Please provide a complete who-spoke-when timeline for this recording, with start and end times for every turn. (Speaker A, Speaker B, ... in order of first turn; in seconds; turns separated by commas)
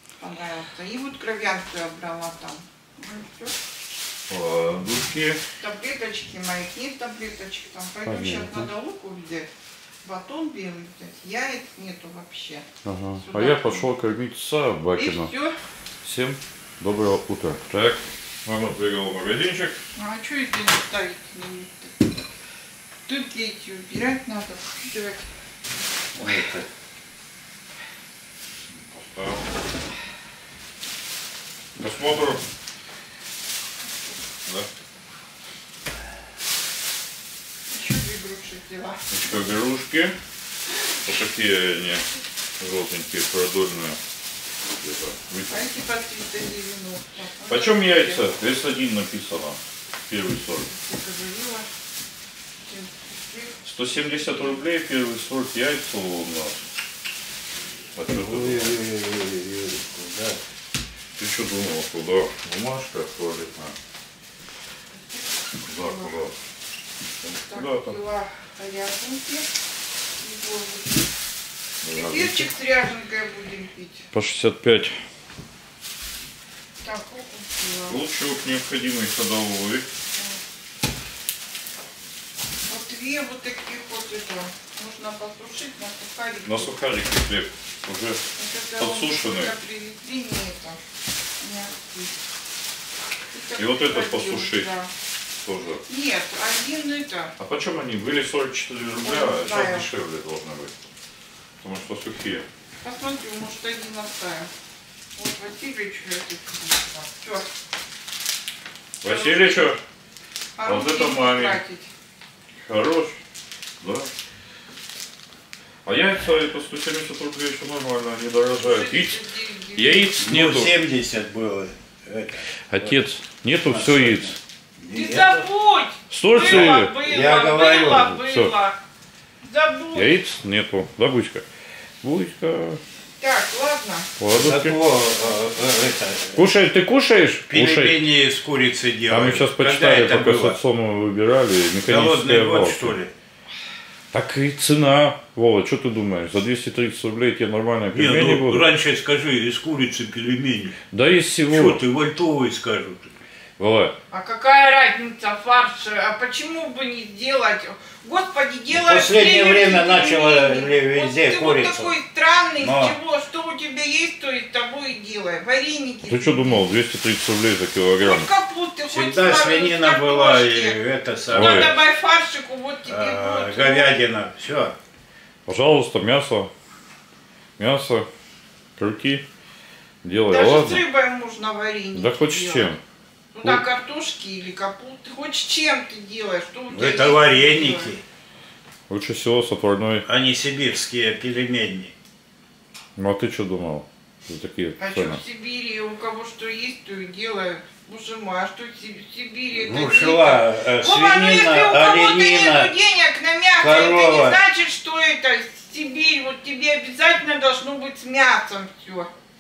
Speaker A: 0.2-3.5, Speaker B: 4.3-5.4, Speaker A: 5.6-9.5, Speaker B: 8.1-8.7, Speaker A: 10.0-12.7, Speaker B: 12.8-15.3, Speaker A: 13.2-13.9, Speaker A: 14.9-15.5, Speaker B: 16.0-19.8, Speaker A: 20.0-22.2, Speaker A: 23.1-25.2, Speaker B: 26.1-26.6, Speaker B: 28.7-29.5, Speaker B: 31.8-32.4, Speaker A: 37.7-39.0, Speaker B: 39.1-40.1, Speaker B: 41.0-42.0, Speaker B: 42.6-44.0, Speaker B: 44.8-45.6, Speaker A: 45.5-48.2, Speaker B: 47.5-50.7, Speaker A: 50.7-51.7, Speaker A: 52.6-53.6, Speaker B: 53.6-56.6, Speaker A: 54.2-54.6, Speaker B: 57.9-58.8, Speaker C: 58.1-60.4, Speaker B: 61.2-63.7, Speaker A: 65.1-66.1, Speaker B: 65.6-66.3, Speaker B: 67.2-67.9, Speaker A: 67.5-69.5, Speaker A: 70.2-71.1, Speaker B: 71.8-72.5, Speaker A: 71.9-74.1, Speaker B: 74.1-75.0, Speaker A: 76.8-78.0, Speaker B: 77.9-79.9, Speaker A: 82.7-86.7, Speaker B: 86.4-88.2, Speaker A: 88.4-90.8, Speaker B: 88.8-89.5, Speaker A: 91.4-92.1, Speaker A: 93.3-94.9, Speaker B: 93.5-94.7, Speaker B: 95.4-95.8, Speaker A: 95.9-97.3, Speaker B: 97.4-100.7, Speaker A: 99.0-99.9, Speaker B: 101.6-102.5, Speaker A: 102.8-104.5, Speaker A: 105.2-107.5, Speaker B: 109.0-109.8, Speaker A: 109.0-109.7, Speaker A: 110.6-111.9, Speaker B: 110.6-111.6, Speaker B: 112.6-113.2, Speaker B: 113.8-114.1, Speaker B: 115.8-119.2, Speaker A: 118.6-120.1, Speaker B: 119.7-120.7, Speaker C: 120.2-123.0, Speaker B: 122.7-124.4, Speaker C: 123.6-125.4, Speaker A: 124.9-128.8, Speaker B: 126.1-126.9, Speaker C: 126.4-128.2, Speaker B: 128.0-128.5, Speaker A: 129.4-130.1, Speaker B: 129.9-131.4, Speaker B: 132.0-132.8, Speaker A: 133.2-134.1, Speaker B: 134.2-134.8, Speaker C: 134.3-136.5, Speaker B: 136.3-138.0, Speaker C: 137.5-140.6, Speaker B: 139.1-142.9, Speaker C: 141.8-143.1, Speaker B: 144.1-148.6, Speaker C: 147.9-150.8, Speaker B: 150.9-151.8, Speaker C: 151.5-153.1, Speaker B: 153.6-153.9, Speaker A: 154.1-166.6, Speaker C: 158.7-161.9, Speaker C: 162.6-162.9, Speaker B: 166.1-168.3, Speaker A: 168.0-170.8, Speaker C: 168.9-171.8, Speaker A: 171.3-173.9, Speaker B: 171.3-171.7, Speaker C: 172.8-174.8, Speaker B: 175.5-176.5, Speaker B: 177.6-178.1, Speaker B: 178.8-179.2, Speaker B: 180.0-180.8, Speaker A: 180.3-182.8, Speaker B: 181.9-182.8, Speaker A: 183.3-187.9, Speaker C: 186.7-188.0, Speaker B: 188.9-190.1, Speaker C: 190.0-191.9, Speaker B: 192.9-195.2, Speaker A: 194.8-209.1, Speaker C: 199.5-202.7, Speaker C: 203.6-204.4